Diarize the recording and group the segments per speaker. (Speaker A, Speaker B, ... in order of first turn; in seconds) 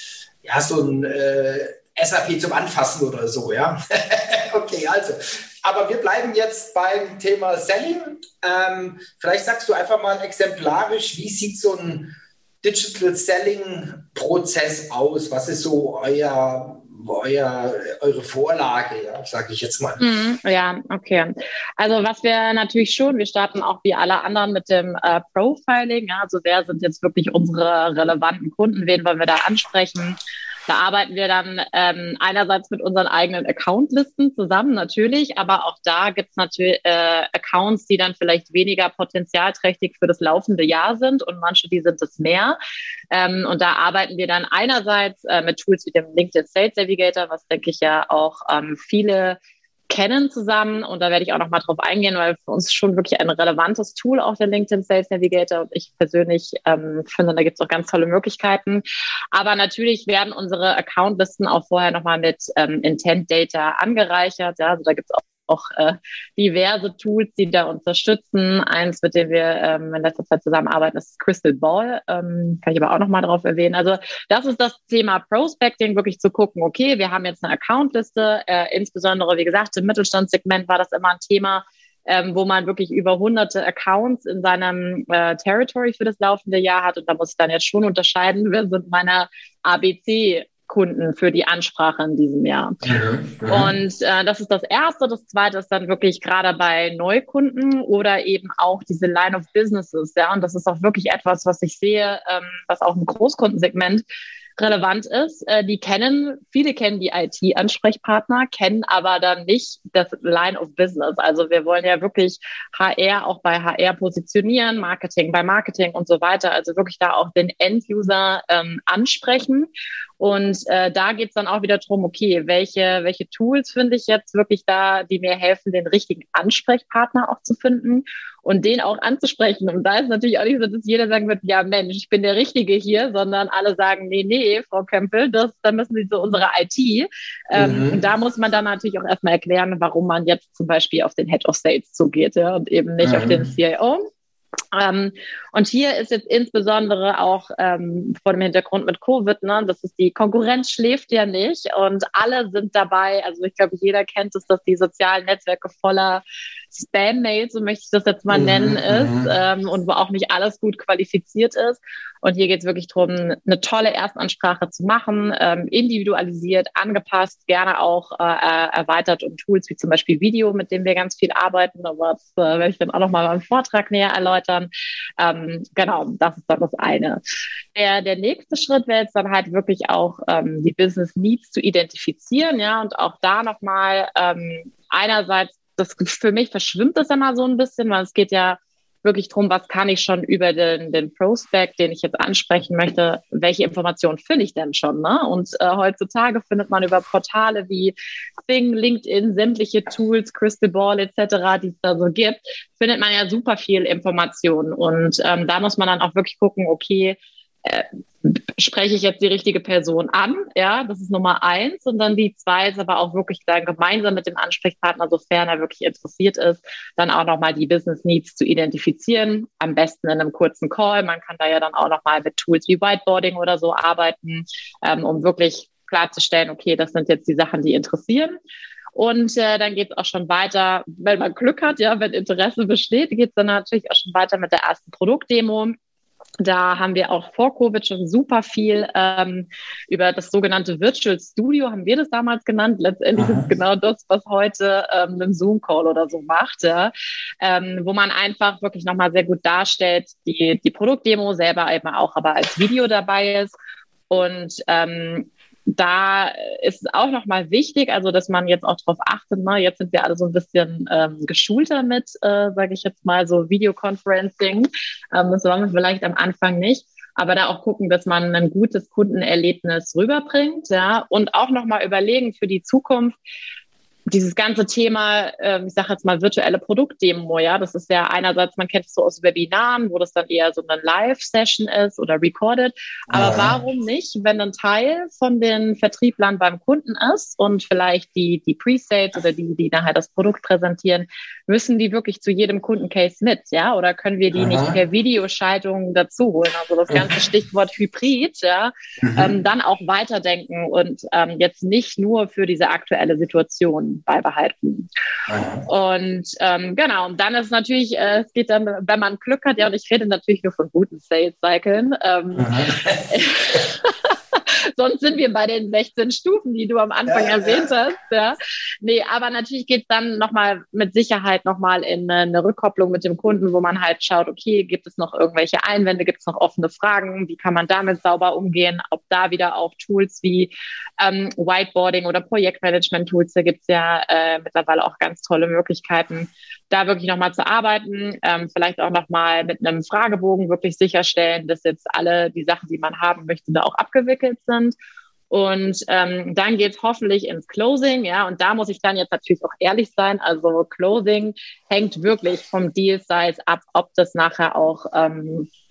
Speaker A: 0.4-20.0, 92.8-93.7, 137.5-138.0, 143.0-143.5, 158.3-159.3, 243.2-243.5, 283.1-283.6, 294.3-294.8, 296.9-297.2, 299.0-299.3, 305.3-305.7, 312.4-313.6, 317.1-317.7
Speaker B: 20.0-42.6, 43.1-49.4, 49.9-92.8, 93.5-104.0, 104.6-119.7, 120.2-144.1, 144.7-156.2, 156.7-177.2, 177.8-197.9, 198.5-228.4, 228.9-235.8, 236.4-253.5, 254.1-273.2, 274.1-304.9, 305.7-344.8, 345.3-355.5